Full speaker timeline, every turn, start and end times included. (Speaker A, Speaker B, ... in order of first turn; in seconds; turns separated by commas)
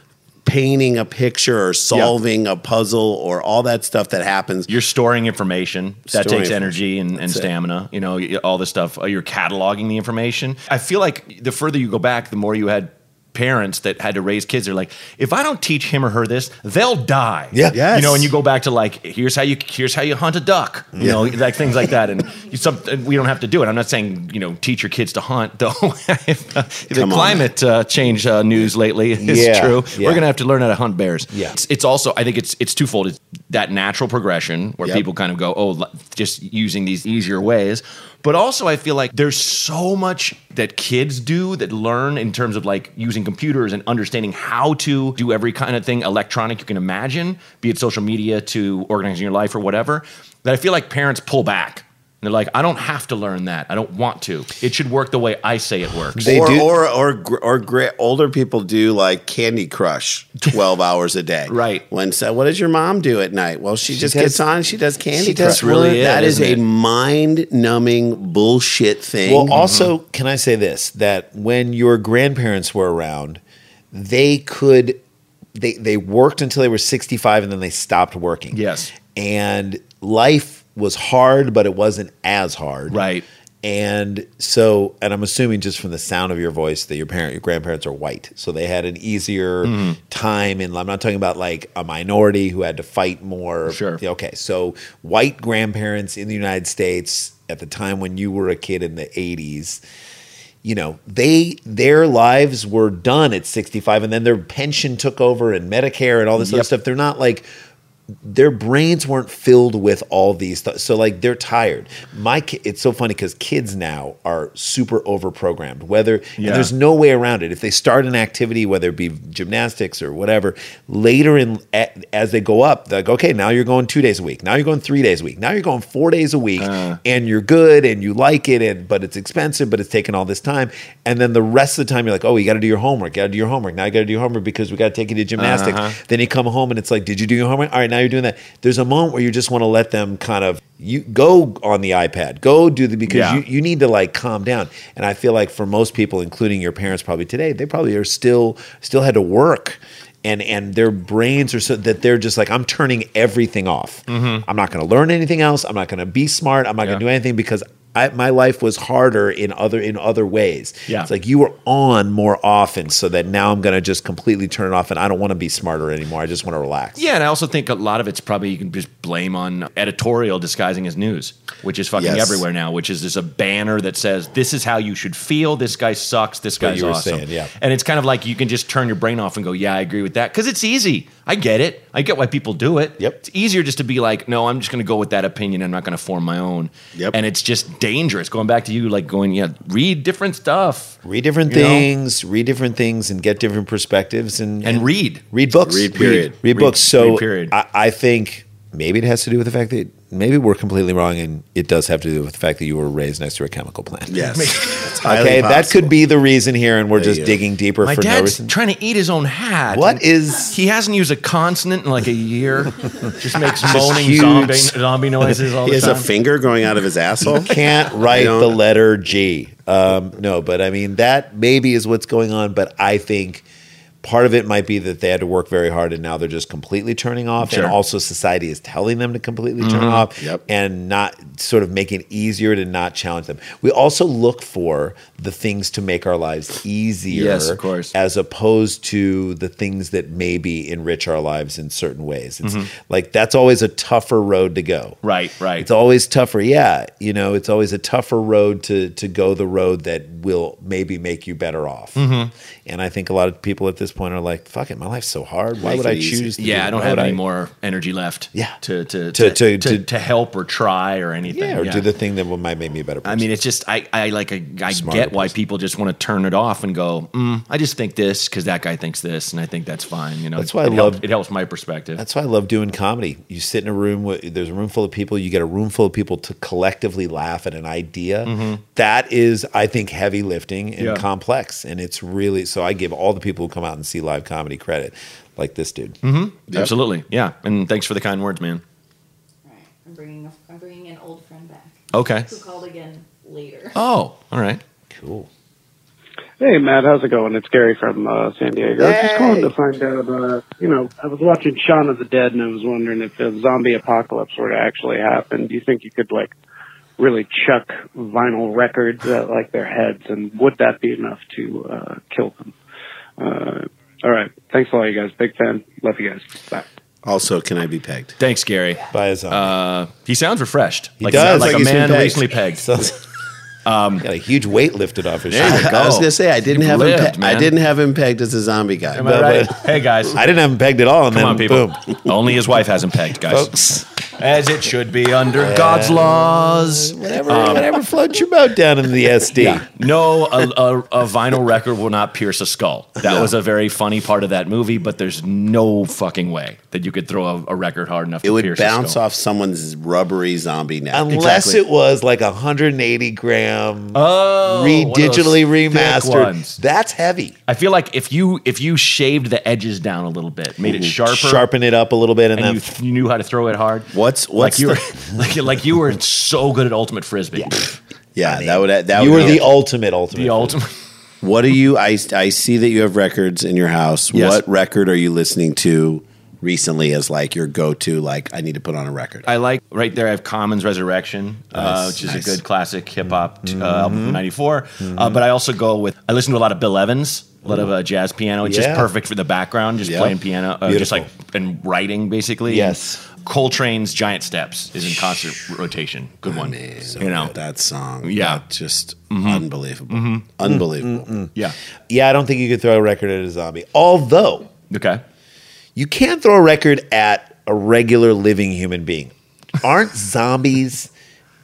Speaker A: 0.4-4.7, Speaker B: 4.7-56.3, Speaker A: 6.1-7.5, Speaker C: 17.5-17.8, Speaker A: 17.7-18.3, Speaker C: 20.9-21.3, Speaker A: 26.9-27.5, Speaker C: 29.2-30.2, Speaker C: 31.3-31.6, Speaker C: 56.1-56.7, Speaker A: 56.2-69.5, Speaker B: 61.5-61.8, Speaker C: 63.9-64.5, Speaker C: 65.2-65.8, Speaker B: 65.2-66.6, Speaker C: 69.2-73.4, Speaker B: 69.5-69.9, Speaker C: 73.9-75.0, Speaker C: 75.5-83.0, Speaker B: 78.5-78.9, Speaker B: 82.9-83.2, Speaker C: 83.6-99.8, Speaker B: 89.6-90.0, Speaker B: 93.7-94.0, Speaker C: 100.6-107.5, Speaker B: 106.4-106.7, Speaker C: 108.2-167.1, Speaker B: 116.4-116.7, Speaker B: 126.6-127.0, Speaker B: 135.4-136.0, Speaker B: 143.1-143.4, Speaker B: 154.1-154.4, Speaker B: 166.9-191.0, Speaker A: 172.0-172.4, Speaker C: 176.6-177.5, Speaker C: 191.0-204.2, Speaker B: 191.5-191.9, Speaker B: 194.6-195.2, Speaker A: 195.6-196.3, Speaker B: 196.0-197.5, Speaker A: 204.1-205.9, Speaker B: 204.2-204.9, Speaker C: 205.0-208.5, Speaker A: 206.9-207.4, Speaker B: 207.8-216.1, Speaker C: 209.7-210.6, Speaker C: 213.4-214.8, Speaker A: 215.6-218.6, Speaker C: 217.2-223.4, Speaker C: 224.0-245.0, Speaker B: 227.4-227.7, Speaker B: 229.6-230.0, Speaker B: 237.1-237.9, Speaker B: 242.4-242.7, Speaker B: 245.0-245.7, Speaker C: 245.6-252.0, Speaker B: 251.9-252.3, Speaker C: 252.7-257.2, Speaker A: 255.6-256.3, Speaker B: 256.4-261.9, Speaker C: 259.1-259.9, Speaker C: 261.3-263.3, Speaker B: 263.0-272.0, Speaker C: 264.7-265.3, Speaker C: 270.4-271.0, Speaker C: 272.0-286.0, Speaker B: 278.2-278.6, Speaker B: 280.8-281.0, Speaker B: 286.0-288.6, Speaker D: 289.4-293.8, Speaker B: 291.9-292.4, Speaker B: 293.7-294.6, Speaker C: 294.9-295.3, Speaker E: 296.4-306.3, Speaker C: 298.8-299.5, Speaker E: 307.0-312.5, Speaker E: 313.2-316.6, Speaker A: 317.0-318.1, Speaker B: 318.2-322.7, Speaker C: 318.9-319.6, Speaker C: 321.0-321.7, Speaker A: 321.1-322.3, Speaker C: 322.5-322.9, Speaker B: 323.6-324.1, Speaker C: 324.0-325.7, Speaker B: 325.3-327.5, Speaker A: 325.3-329.0, Speaker B: 328.9-330.2, Speaker C: 328.9-332.1, Speaker B: 331.1-333.5, Speaker C: 333.2-333.9, Speaker B: 334.1-337.7, Speaker C: 335.3-339.7, Speaker B: 339.4-349.0, Speaker A: 348.2-351.1, Speaker C: 350.9-357.4, Speaker B: 351.1-351.6, Speaker B: 353.9-356.6, Speaker B: 357.5-361.5, Speaker A: 360.6-360.9, Speaker C: 361.0-362.8, Speaker B: 362.4-367.8, Speaker A: 363.9-364.8, Speaker A: 368.1-369.5, Speaker C: 368.2-370.6, Speaker B: 369.1-369.4, Speaker B: 370.1-370.7, Speaker A: 371.2-379.2, Speaker B: 374.1-374.4, Speaker B: 379.2-397.3, Speaker A: 381.5-382.4, Speaker C: 383.1-384.2, Speaker C: 384.8-385.2, Speaker C: 388.4-388.9, Speaker A: 389.8-390.1, Speaker C: 390.6-391.1, Speaker C: 392.5-393.0, Speaker A: 396.3-401.1, Speaker C: 396.8-397.3, Speaker B: 398.0-398.4, Speaker B: 399.1-400.2, Speaker C: 400.4-401.3, Speaker C: 401.9-404.5, Speaker B: 404.7-405.0, Speaker C: 405.7-410.9